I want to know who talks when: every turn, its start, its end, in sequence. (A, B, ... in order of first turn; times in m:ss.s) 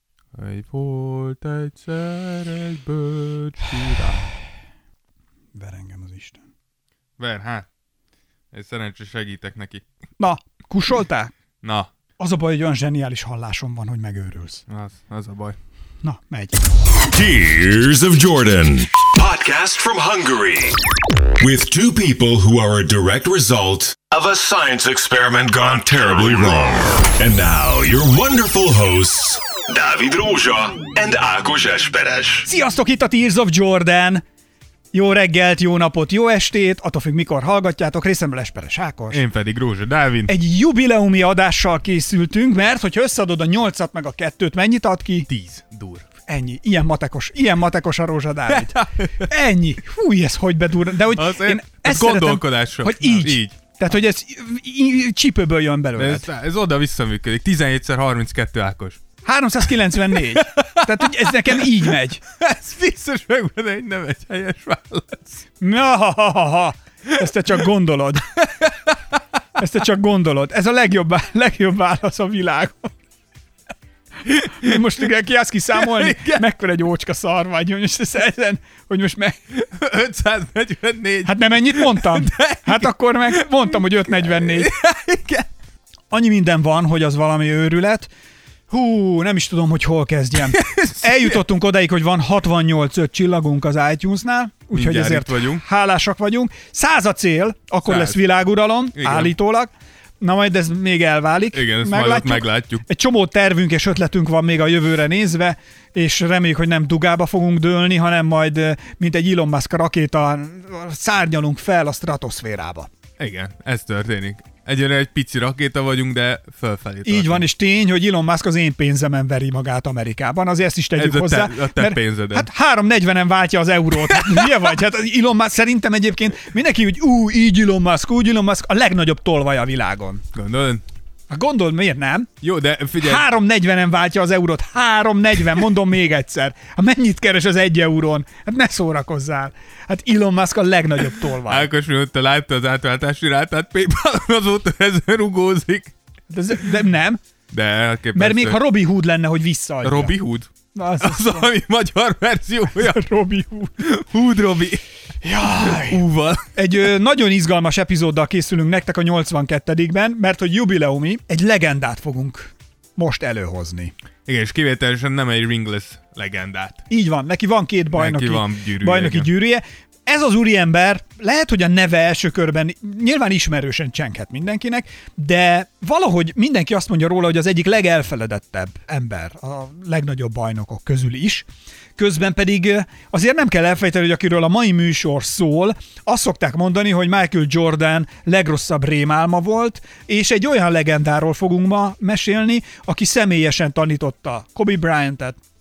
0:00.3-0:04.3 A
0:05.6-0:06.4 B
0:07.2-0:07.7 A
0:08.5-0:09.8 A
0:10.2-0:11.3 B
0:11.6-0:11.9 A
0:12.2-0:14.6 B
0:14.7-0:15.6 A
0:16.0-0:16.6 B
0:17.1-0:20.7 C
0:21.4-0:32.4 C
0:32.5-0:34.2 B
0:34.9-0:39.2 B
0:39.1-0:40.3 A
0:40.3-0:45.3 B
0:45.3-0:46.1 A
0:46.3-0:56.2 B
0:48.5-0:49.3 A
0:50.9-0:53.6 A
0:56.0-0:59.0 A
0:59.2-1:02.2 B
1:00.1-1:05.4 A
1:05.6-1:08.3 B
1:08.4-1:09.2 A
1:09.6-1:13.0 B
1:14.3-1:14.8 A
1:14.4-1:19.4 B
1:15.8-1:16.4 A
1:19.5-1:25.5 A
1:21.2-1:24.7 B
1:26.1-1:28.1 B
1:28.7-1:52.9 B
1:30.5-1:31.4 A
1:34.7-1:35.6 A
1:37.9-1:38.2 A
1:39.0-1:39.3 A
1:41.5-1:42.8 A
1:53.2-1:57.5 A
1:57.0-2:10.2 B
2:01.0-2:02.5 A
2:04.0-2:04.7 A
2:10.3-2:10.8 A
2:11.3-2:12.3 B
2:12.4-2:13.2 A
2:13.0-2:21.7 B
2:21.4-2:25.9 A
2:26.3-2:27.2 B
2:27.5-2:28.6 A
2:28.2-2:30.2 B
2:29.8-2:33.0 A
2:30.7-2:31.5 B
2:32.8-2:33.8 B
2:33.8-2:34.8 A
2:35.2-2:36.0 B
2:35.4-2:36.5 A
2:36.5-2:43.9 B
2:44.3-2:46.8 A
2:46.9-3:01.5 B
2:47.9-2:49.3 A
3:02.0-3:15.4 B